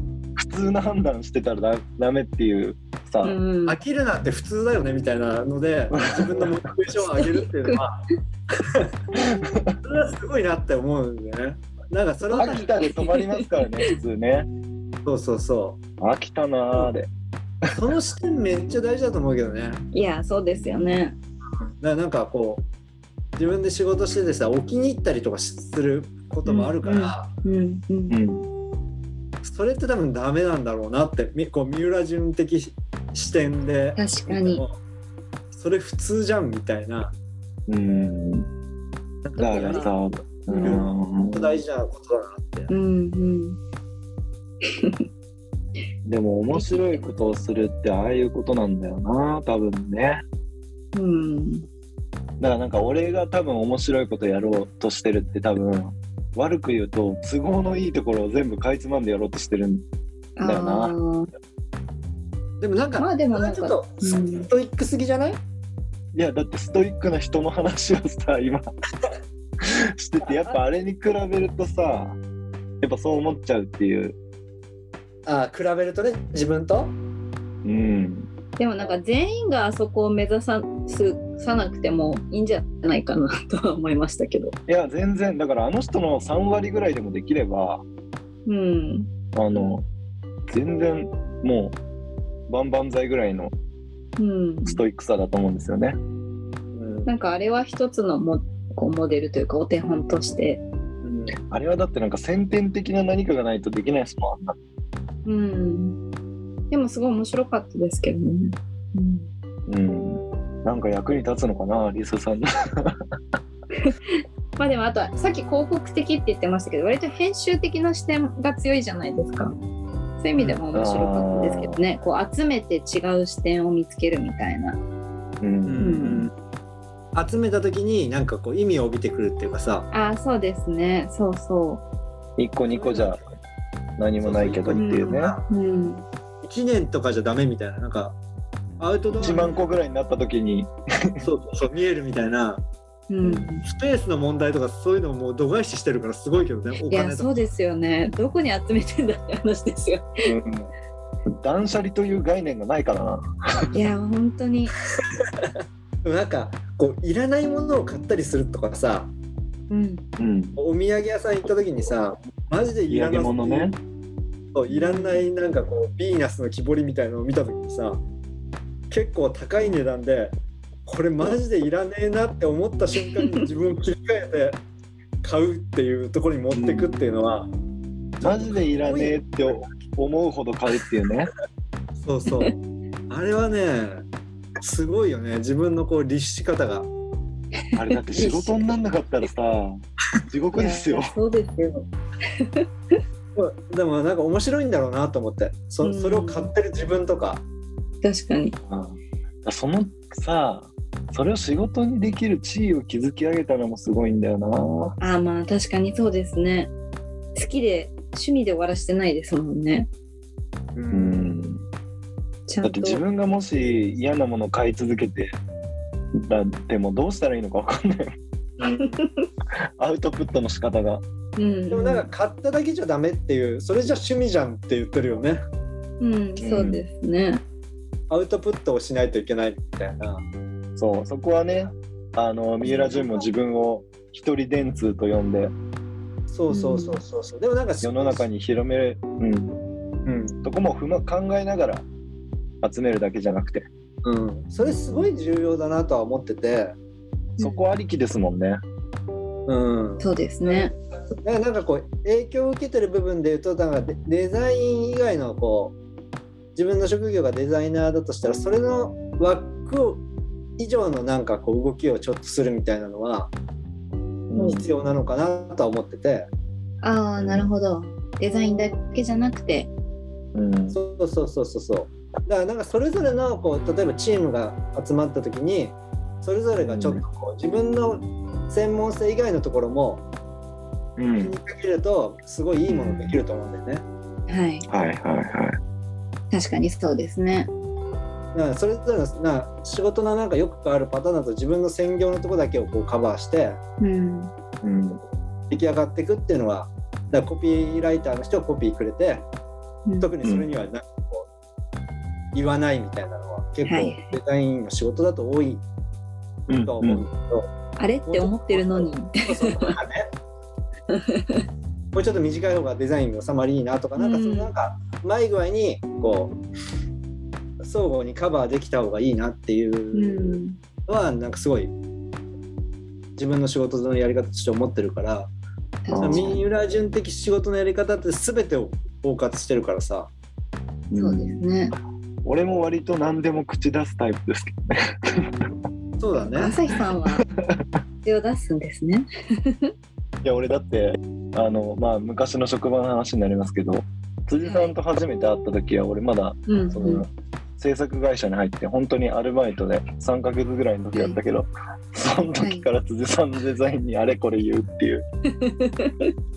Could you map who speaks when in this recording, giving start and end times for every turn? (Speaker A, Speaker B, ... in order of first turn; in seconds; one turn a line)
Speaker A: 0.3-3.4
Speaker B: 3.2-3.8
Speaker C: 3.6-8.0
Speaker A: 5.9-6.5
Speaker B: 7.1-7.8
Speaker C: 8.6-8.9
Speaker A: 9.1-9.8
Speaker C: 9.8-12.7
Speaker B: 12.2-13.9
Speaker A: 12.3-14.5
Speaker C: 15.0-15.8
Speaker A: 16.0-17.1
Speaker C: 17.7-19.9
Speaker B: 19.9-21.1
Speaker C: 21.8-22.6
Speaker C: 23.4-27.3
Speaker B: 26.4-28.2
Speaker A: 28.1-28.5
Speaker C: 29.4-34.8
Speaker B: 34.0-34.6
Speaker C: 35.5-37.1
Speaker A: 37.7-38.5
Speaker C: 39.2-39.9
Speaker A: 39.4-41.6
Speaker B: 39.5-39.9
Speaker B: 40.5-40.9
Speaker C: 40.6-42.7
Speaker B: 42.7-43.6
Speaker B: 44.6-45.0
Speaker A: 46.0-50.2
Speaker B: 46.5-47.1
Speaker B: 50.9-51.6
Speaker A: 52.4-59.8
Speaker B: 60.4-61.3
Speaker A: 60.4-61.0
Speaker C: 62.6-65.4
Speaker B: 63.0-64.5
Speaker A: 66.1-68.6
Speaker A: 69.6-72.2
Speaker A: 72.8-74.2
Speaker C: 75.2-77.0
Speaker A: 77.6-78.3
Speaker B: 78.6-84.5
Speaker A: 84.7-87.8
Speaker B: 88.5-89.1
Speaker A: 89.3-89.8
Speaker A: 90.5-91.8
Speaker A: 92.5-93.5
Speaker B: 94.2-94.8
Speaker A: 94.7-96.0
Speaker C: 96.7-97.1
Speaker B: 97.0-100.6
Speaker C: 101.0-101.3
Speaker A: 101.5-104.6
Speaker B: 105.2-106.0
Speaker B: 106.7-109.3
Speaker A: 109.7-113.0
Speaker B: 113.8-119.5
Speaker B: 120.2-124.8
Speaker C: 120.4-120.6
Speaker A: 120.7-121.8
Speaker A: 125.4-126.2
Speaker C: 125.7-126.3
Speaker B: 125.8-126.2
Speaker C: 127.1-129.9
Speaker B: 129.9-131.8
Speaker A: 132.4-133.2
Speaker C: 132.7-133.3
Speaker A: 134.0-135.3
Speaker C: 134.2-135.4
Speaker B: 134.8-136.0
Speaker C: 136.4-138.2
Speaker C: 138.8-139.6
Speaker A: 139.2-141.2
Speaker B: 139.2-139.5
Speaker C: 141.2-142.6
Speaker B: 143.1-143.6
Speaker C: 143.2-147.3
Speaker B: 146.9-150.2
Speaker A: 150.2-150.7
Speaker A: 151.4-153.7
Speaker B: 153.7-154.7
Speaker C: 155.1-155.5
Speaker C: 156.0-159.1
Speaker B: 159.7-160.0
Speaker A: 160.2-160.6
Speaker C: 160.6-163.7
Speaker A: 162.9-163.8
Speaker C: 164.5-168.0
Speaker B: 164.7-165.3
Speaker C: 168.9-174.6
Speaker C: 175.2-177.5
Speaker A: 176.5-176.9
Speaker C: 178.2-179.8
Speaker A: 178.2-181.3
Speaker C: 182.0-182.5
Speaker B: 182.3-182.5
Speaker C: 183.1-184.0
Speaker C: 184.6-186.9
Speaker A: 187.7-189.8
Speaker B: 188.1-188.7
Speaker A: 190.3-191.1
Speaker B: 190.5-193.0
Speaker C: 193.3-197.4
Speaker B: 195.8-196.5
Speaker B: 198.0-198.6
Speaker A: 198.7-204.9
Speaker B: 205.0-206.7
Speaker B: 207.3-209.9
Speaker C: 210.7-211.3
Speaker A: 210.9-211.6
Speaker B: 212.5-213.0
Speaker A: 212.6-215.3
Speaker A: 216.1-218.2
Speaker B: 218.6-219.3
Speaker C: 218.6-218.9
Speaker A: 219.8-221.0
Speaker B: 221.4-222.1
Speaker C: 221.7-225.4
Speaker B: 226.0-227.4
Speaker A: 226.4-226.8
Speaker C: 228.1-230.2
Speaker A: 230.8-235.5
Speaker B: 232.6-233.3
Speaker C: 236.3-238.2
Speaker B: 236.5-237.0
Speaker A: 237.8-239.6
Speaker C: 240.1-240.3
Speaker A: 240.4-241.8
Speaker A: 242.6-243.7
Speaker C: 244.0-246.8
Speaker B: 244.9-245.1
Speaker B: 247.4-247.6
Speaker A: 247.4-248.6
Speaker C: 249.5-255.8
Speaker B: 250.0-250.7
Speaker C: 256.6-260.0
Speaker C: 260.6-263.3
Speaker A: 264.3-264.6
Speaker B: 264.4-264.7
Speaker C: 264.5-266.3
Speaker B: 266.8-269.7
Speaker A: 267.2-267.5
Speaker A: 270.3-270.8
Speaker C: 270.7-280.0
Speaker A: 281.0-281.3
Speaker C: 281.1-283.8
Speaker B: 282.7-283.2
Speaker B: 284.3-284.7
Speaker A: 284.7-285.6
Speaker B: 286.3-287.5
Speaker C: 288.3-293.6
Speaker B: 293.8-294.3
Speaker A: 294.6-295.0
Speaker C: 295.5-299.3
Speaker B: 299.9-300.1
Speaker C: 300.0-301.3
Speaker C: 302.3-305.6
Speaker B: 303.6-304.1
Speaker A: 306.5-307.1
Speaker C: 306.5-307.5
Speaker B: 307.8-309.7
Speaker C: 308.1-310.1
Speaker B: 310.9-311.4
Speaker C: 311.9-316.4
Speaker B: 314.0-314.5
Speaker C: 317.6-321.7
Speaker B: 319.9-320.6
Speaker C: 323.2-325.3
Speaker B: 325.8-326.4
Speaker A: 325.9-326.4
Speaker C: 326.0-330.1
Speaker A: 330.9-331.4
Speaker B: 330.9-331.8
Speaker A: 332.2-335.5
Speaker C: 336.0-336.5
Speaker B: 336.3-337.2
Speaker B: 338.0-339.7
Speaker A: 340.2-355.1
Speaker B: 344.4-344.7
Speaker B: 346.5-347.1
Speaker B: 350.9-351.2
Speaker B: 352.4-352.7
Speaker B: 355.3-356.1